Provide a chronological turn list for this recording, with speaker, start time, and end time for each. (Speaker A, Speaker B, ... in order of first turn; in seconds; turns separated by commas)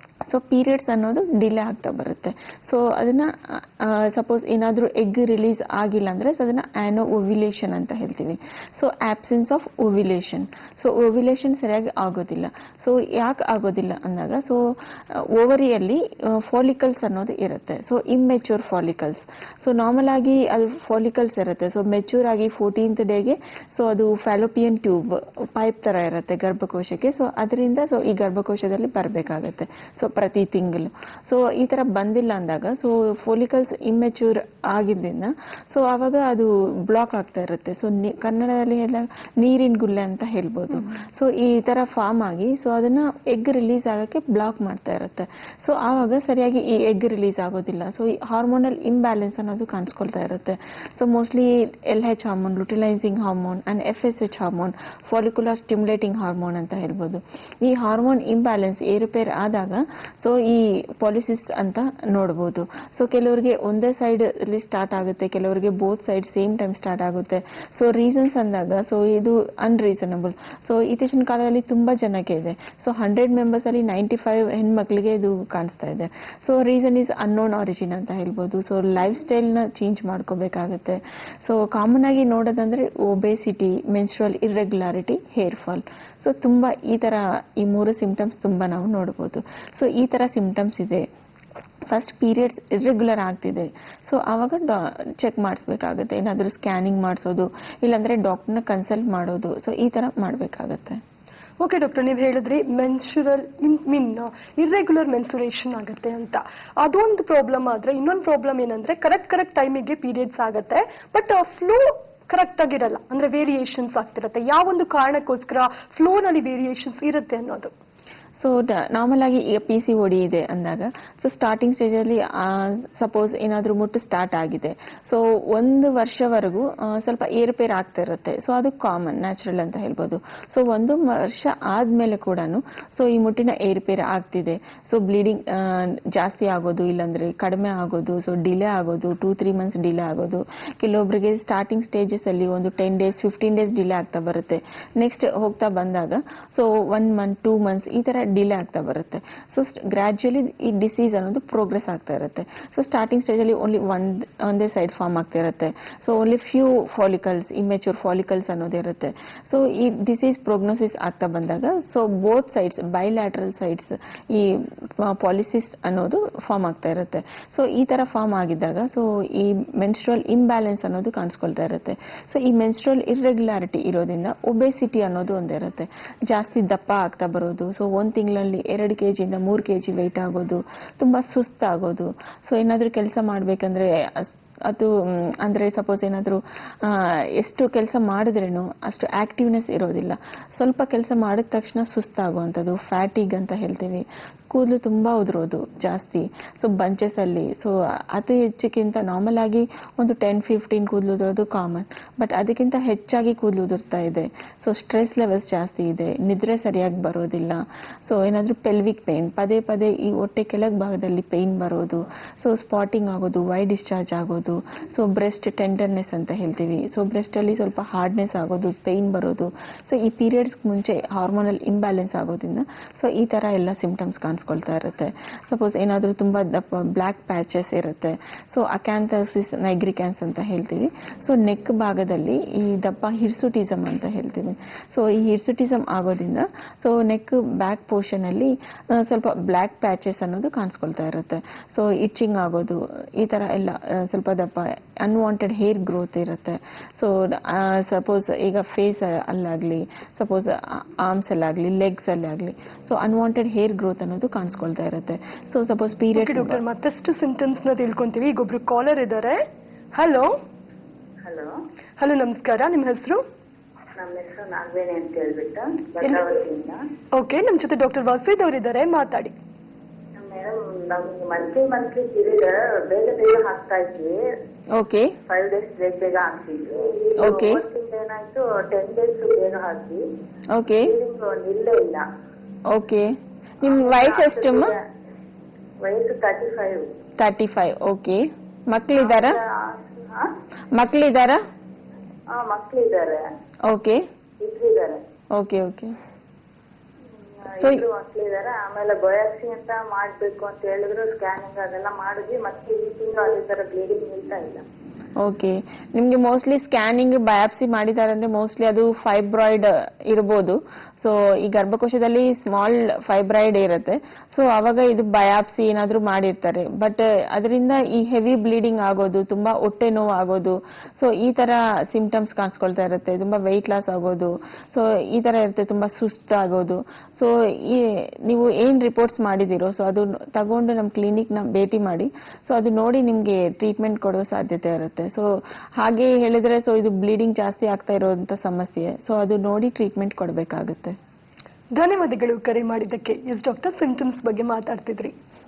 Speaker A: 0.3-91.1, Speaker A: 91.9-101.0, Speaker B: 101.6-117.7, Speaker A: 118.4-256.6, Speaker B: 256.1-260.3, Speaker B: 262.0-263.2, Speaker C: 264.0-266.8, Speaker B: 267.1-269.3, Speaker C: 270.2-274.1, Speaker A: 274.7-275.1, Speaker C: 275.3-280.0, Speaker A: 277.2-277.6, Speaker A: 280.5-280.9, Speaker C: 280.9-282.0, Speaker A: 282.7-283.1, Speaker A: 283.6-284.8, Speaker C: 283.7-284.6, Speaker C: 285.8-286.8, Speaker A: 287.2-289.4, Speaker C: 289.1-289.4, Speaker A: 290.8-291.4, Speaker C: 292.3-293.2, Speaker A: 293.7-294.0, Speaker C: 294.4-295.0, Speaker A: 295.4-295.9, Speaker C: 297.5-304.6, Speaker A: 297.5-297.9, Speaker A: 305.2-341.0, Speaker B: 341.7-345.1